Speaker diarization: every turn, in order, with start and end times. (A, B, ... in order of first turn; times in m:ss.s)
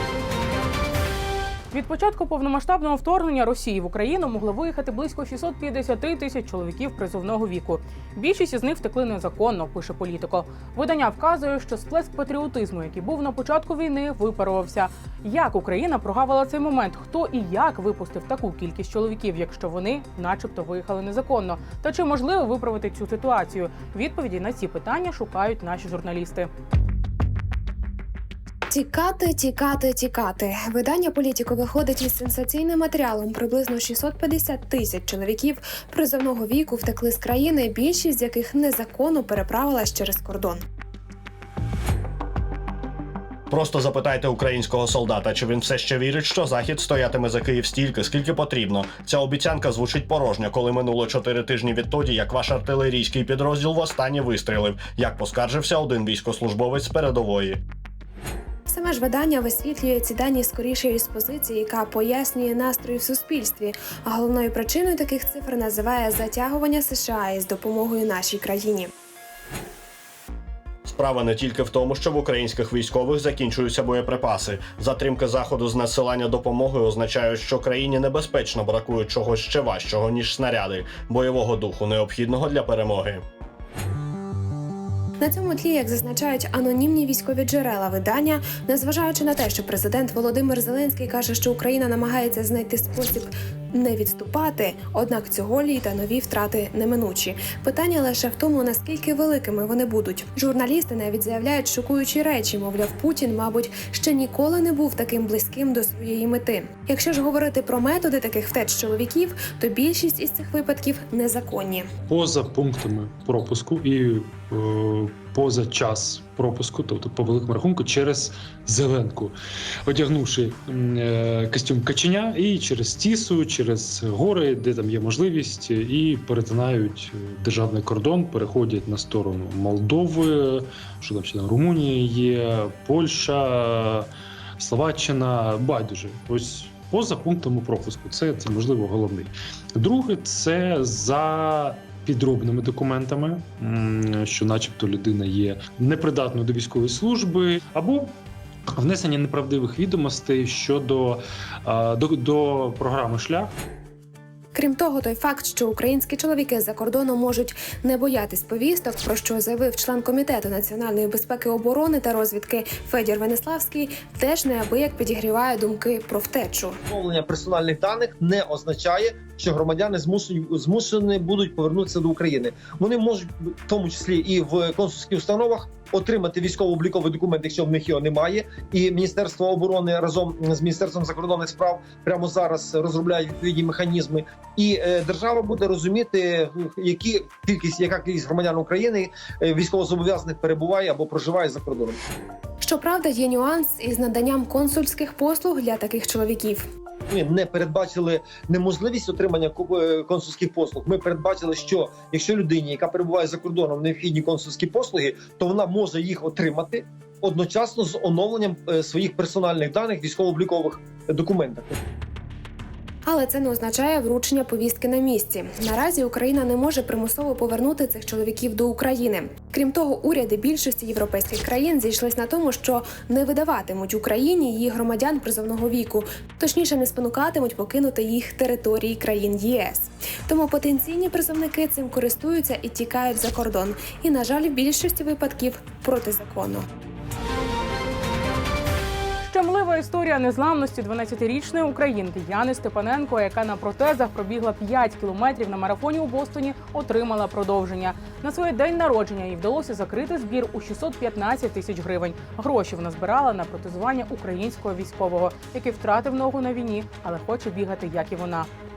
0:01.7-0:26.5 A
0:28.7-0:40.6 B
0:43.5-0:57.6 C
0:58.7-1:08.9 B
1:10.9-1:23.2 C
1:25.2-1:51.9 B
1:52.1-1:59.3 D
1:59.9-2:14.1 D
2:14.6-2:28.1 D
2:28.8-2:33.5 D
2:34.5-2:46.8 B
2:46.9-3:12.0 E
3:12.6-3:16.7 B
3:17.1-3:31.8 E
3:33.1-3:56.6 B
3:59.2-4:18.5 A